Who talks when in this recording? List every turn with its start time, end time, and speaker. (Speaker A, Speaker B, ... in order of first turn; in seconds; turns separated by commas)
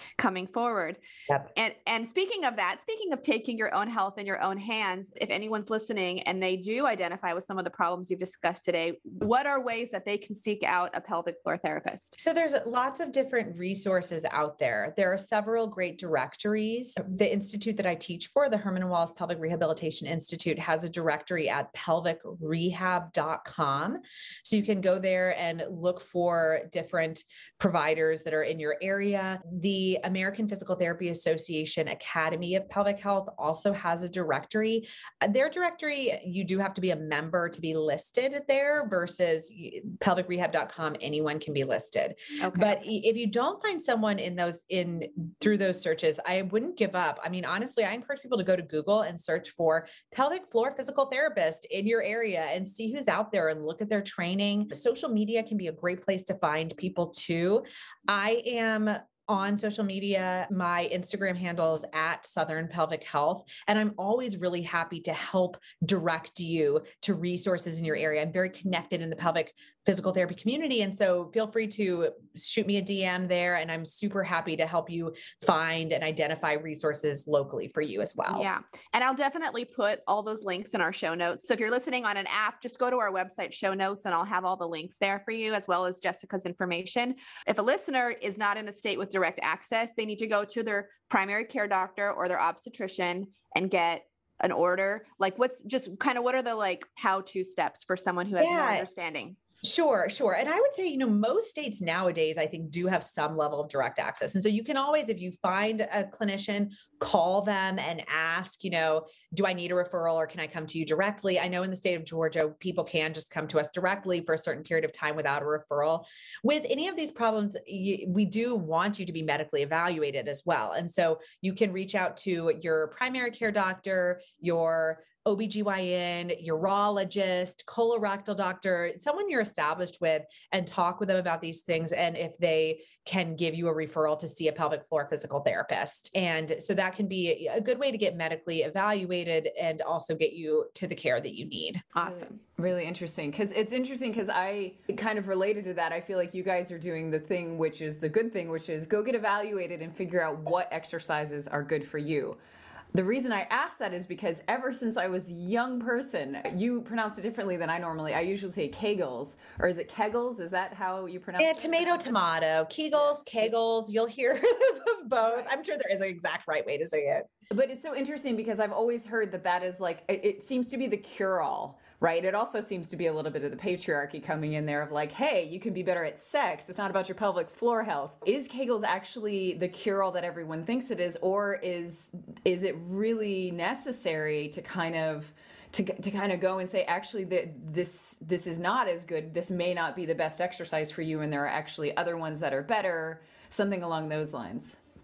Speaker A: 0.2-1.0, Speaker A: 1.6-12.2, Speaker B: 12.2-78.5, Speaker A: 42.4-42.8, Speaker A: 78.3-99.4, Speaker B: 98.4-98.8, Speaker B: 99.6-141.9, Speaker A: 141.9-142.4, Speaker C: 142.6-152.4, Speaker C: 152.9-162.2, Speaker B: 161.4-167.3, Speaker C: 167.5-194.8